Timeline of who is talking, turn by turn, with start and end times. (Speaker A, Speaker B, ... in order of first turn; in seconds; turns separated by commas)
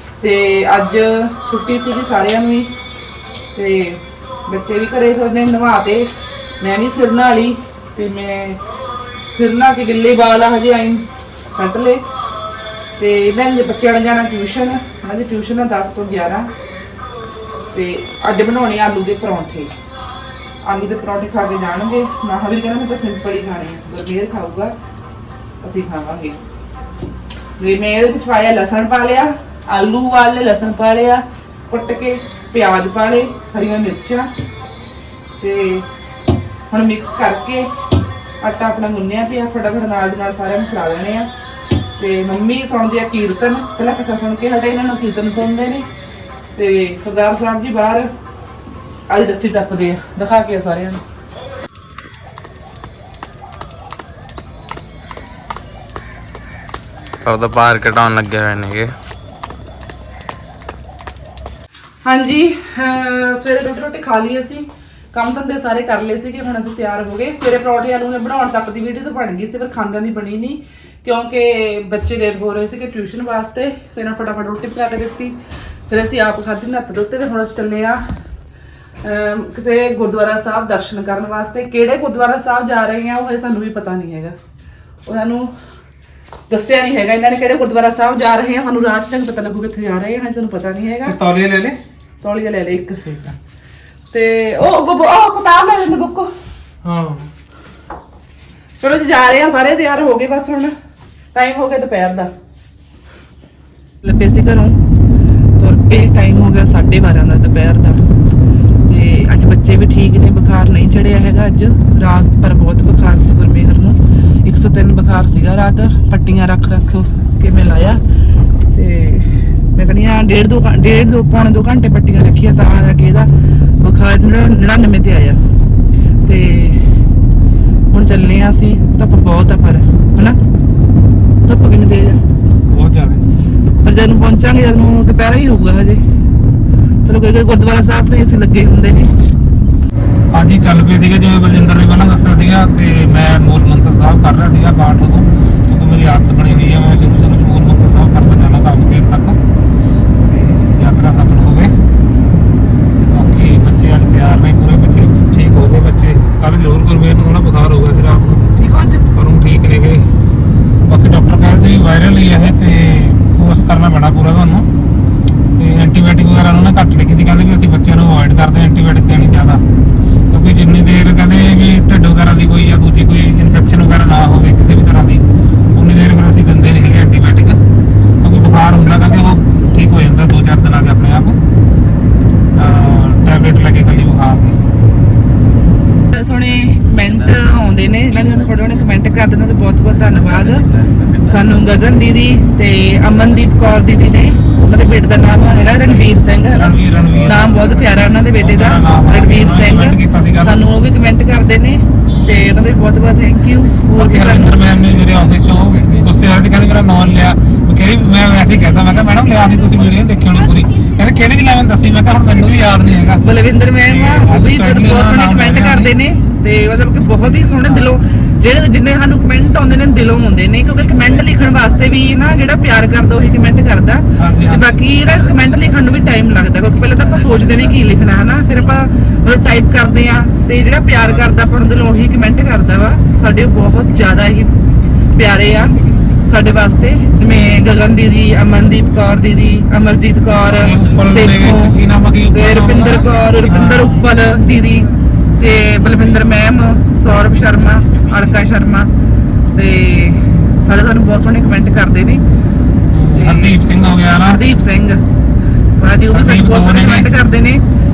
Speaker A: 0.2-2.7, Speaker A: 3.5-8.6, Speaker A: 9.3-12.0, Speaker A: 13.0-16.5, Speaker A: 17.7-19.7, Speaker A: 20.6-24.7, Speaker A: 25.6-26.4, Speaker A: 27.6-34.3, Speaker A: 35.4-35.9, Speaker A: 36.7-37.7, Speaker A: 38.4-41.3, Speaker A: 42.0-45.9, Speaker A: 46.5-48.1, Speaker A: 49.1-51.0, Speaker B: 57.2-58.9, Speaker A: 62.0-75.4, Speaker A: 75.9-78.0, Speaker A: 79.0-84.3, Speaker A: 85.0-85.5, Speaker A: 86.5-91.2, Speaker C: 91.0-91.8, Speaker A: 92.2-93.3, Speaker A: 94.1-96.3, Speaker C: 96.8-97.3, Speaker A: 98.8-100.7, Speaker A: 101.3-102.3, Speaker A: 104.0-104.8, Speaker A: 105.6-108.0, Speaker A: 108.8-118.0, Speaker A: 118.7-123.3, Speaker A: 123.8-125.4, Speaker A: 126.2-126.8, Speaker A: 127.9-130.4, Speaker A: 131.4-132.2, Speaker C: 132.7-133.2, Speaker A: 133.8-136.0, Speaker A: 137.0-139.1, Speaker C: 140.3-149.4, Speaker A: 150.3-150.7, Speaker C: 150.7-151.7, Speaker C: 153.1-158.4, Speaker A: 158.6-159.1, Speaker C: 159.1-160.1, Speaker C: 160.9-164.7, Speaker C: 165.6-169.6, Speaker C: 170.3-175.2, Speaker C: 175.7-177.6, Speaker C: 178.2-181.4, Speaker C: 182.5-184.6, Speaker A: 186.1-190.7, Speaker B: 190.1-191.6, Speaker A: 191.2-204.7, Speaker C: 196.5-197.7, Speaker C: 198.2-200.6, Speaker C: 203.9-213.2, Speaker B: 204.7-206.0, Speaker A: 213.2-234.5, Speaker C: 213.8-215.9, Speaker B: 221.0-221.6, Speaker C: 224.2-224.8, Speaker B: 227.2-227.6, Speaker A: 235.2-235.7, Speaker A: 236.2-241.8, Speaker C: 240.5-244.0, Speaker A: 242.3-248.9, Speaker A: 249.5-252.2, Speaker C: 252.9-254.4, Speaker A: 253.1-253.6, Speaker A: 254.2-255.0, Speaker A: 255.8-257.6, Speaker C: 256.1-257.1